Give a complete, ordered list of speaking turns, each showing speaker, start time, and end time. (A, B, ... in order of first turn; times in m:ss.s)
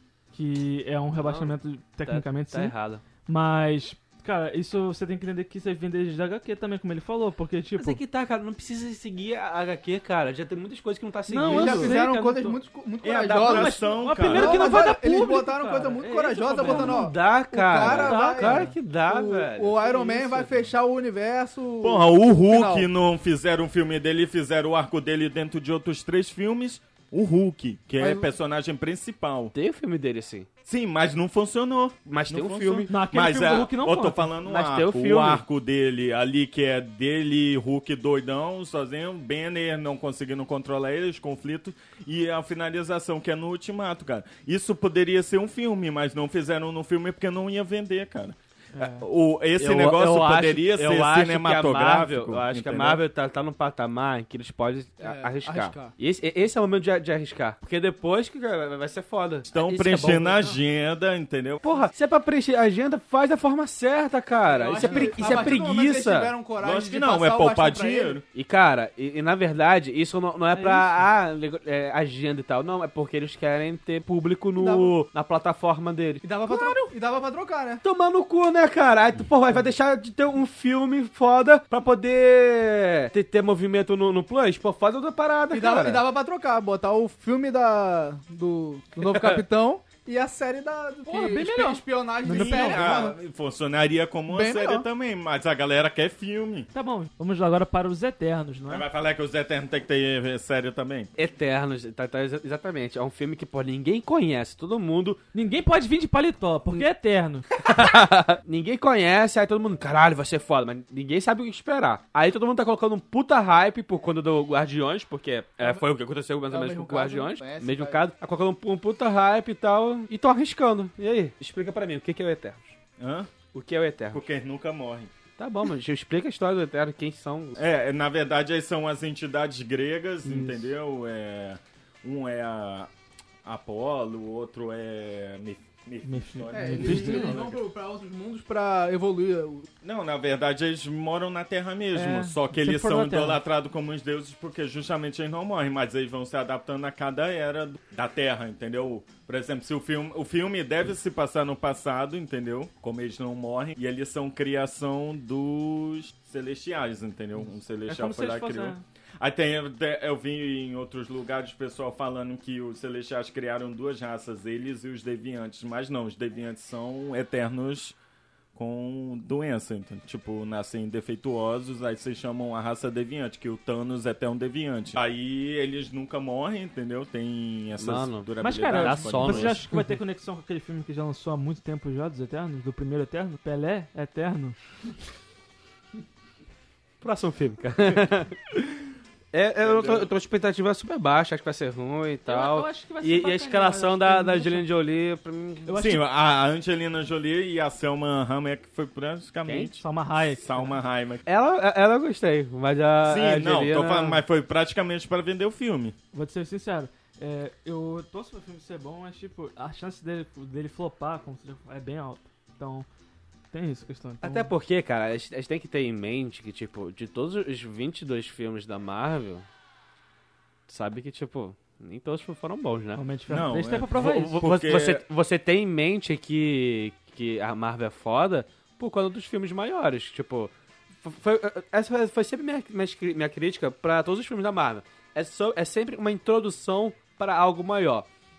0:00.3-0:02.7 A
0:01.2-0:03.0 B
0:03.2-0:08.0 A
0:07.8-0:12.0 B
0:11.3-0:12.6 A
0:11.5-0:22.9 C
0:13.0-0:14.8 D
0:13.4-0:17.1 A
0:16.6-0:20.6 B
0:17.8-0:18.7 A
0:21.8-0:29.5 D
0:29.5-0:30.5 B
0:30.6-0:53.0 D
0:32.1-0:32.9 B
0:32.9-0:34.3 A
0:34.4-0:35.4 B
0:48.7-0:49.0 A
0:49.6-1:00.5 B
0:55.0-0:55.9 C
0:59.5-1:01.6 D
1:01.6-1:06.3 B
1:04.4-1:08.2 C
1:04.8-1:05.2 A
1:05.2-1:05.6 D
1:06.6-1:08.2 D
1:08.3-1:16.7 B
1:10.5-1:11.0 A
1:14.6-1:15.0 C
1:16.2-1:17.8 C
1:17.8-1:26.0 B
1:25.5-1:33.2 C
1:29.0-1:29.4 B
1:31.0-1:32.9 A
1:32.2-1:36.7 D
1:34.3-1:34.8 C
1:36.7-1:38.8 A
1:38.7-1:41.1 D
1:41.2-1:45.2 B
1:45.3-1:47.5 A
1:47.6-2:02.7 B
1:55.6-1:55.9 C
1:56.5-1:58.0 C
2:03.0-2:03.3 D
2:03.5-2:04.2 B
2:04.1-2:05.1 D
2:05.4-2:07.6 B
2:07.6-2:12.9 D
2:10.2-2:10.6 A
2:13.4-2:17.6 D
2:16.0-2:17.4 A
2:16.5-2:19.7 C
2:19.8-2:48.0 D
2:21.9-2:23.4 A
2:37.9-2:38.8 A
2:48.5-2:59.6 D
2:57.8-2:59.8 B
2:58.4-3:04.6 A
3:07.0-3:08.4 B
3:09.3-3:15.7 B
3:09.6-3:10.1 D
3:12.3-3:14.7 A
3:15.7-3:16.0 A
3:15.8-3:21.2 D
3:19.8-3:20.8 A
3:21.2-3:24.2 B
3:23.0-3:26.0 D
3:26.1-3:32.8 A
3:33.5-3:34.5 A
3:34.2-3:39.4 B
3:40.7-3:43.0 B
3:43.0-3:44.4 A
3:43.3-3:45.0 D
3:44.0-3:50.5 B
3:51.0-3:58.0 B